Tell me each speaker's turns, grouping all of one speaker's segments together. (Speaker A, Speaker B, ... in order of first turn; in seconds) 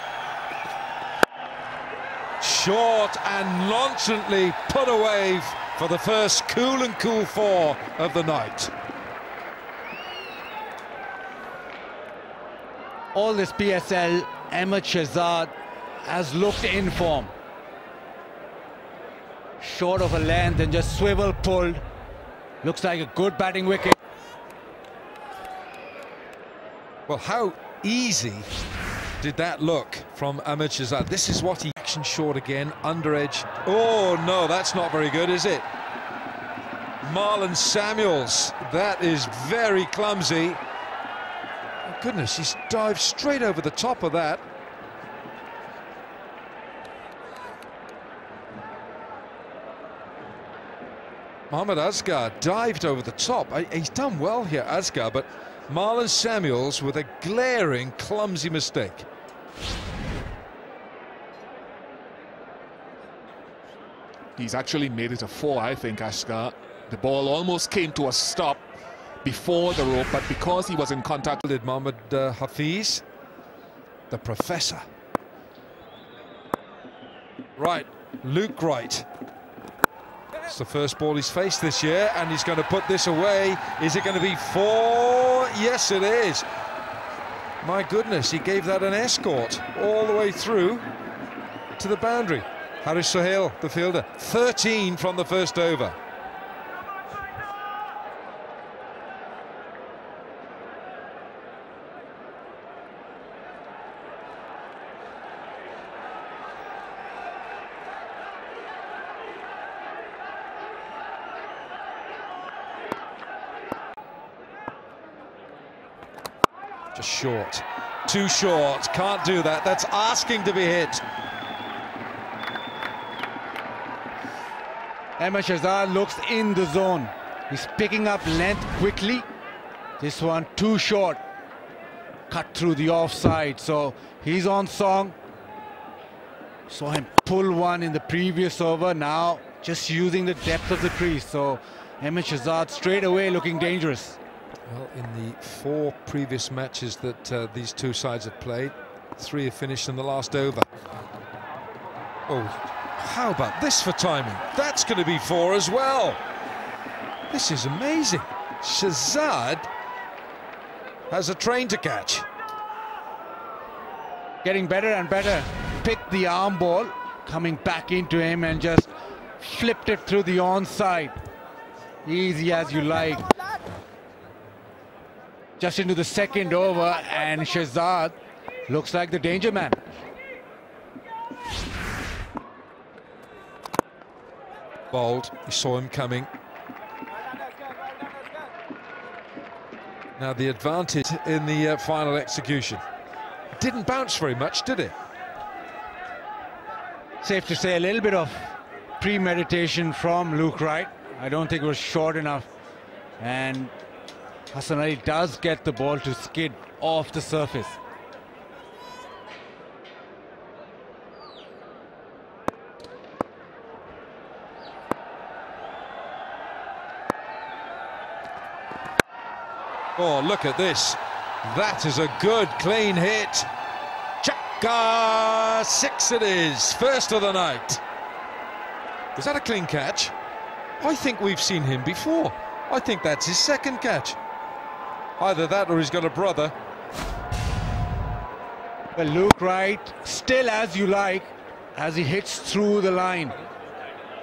Speaker A: 2.4-8.7, 27.1-28.5, 29.2-35.7, 37.0-40.6, 41.9-44.4, 51.5-59.1, 71.5-73.0, 74.1-74.9, 77.6-79.1, 80.5-86.5, 87.6-90.9, 91.8-96.0, 116.9-121.0, 144.7-150.7, 152.3-156.2, 157.3-159.7, 161.1-162.3, 184.9-186.3, 190.2-192.8, 193.5-194.9, 220.0-223.5, 224.2-227.8, 229.2-230.1, 230.8-234.2, 235.2-236.6
Speaker B: 13.1-15.5, 16.0-17.3, 19.6-21.8, 22.6-24.0, 125.2-129.3, 130.0-131.2, 132.3-135.2, 136.7-144.2, 164.4-168.9, 169.4-171.2, 172.1-173.3, 175.6-178.2, 178.7-179.8, 197.2-202.5, 203.2-203.7, 204.5-207.8, 238.9-243.4
Speaker C: 64.4-68.7, 69.2-71.4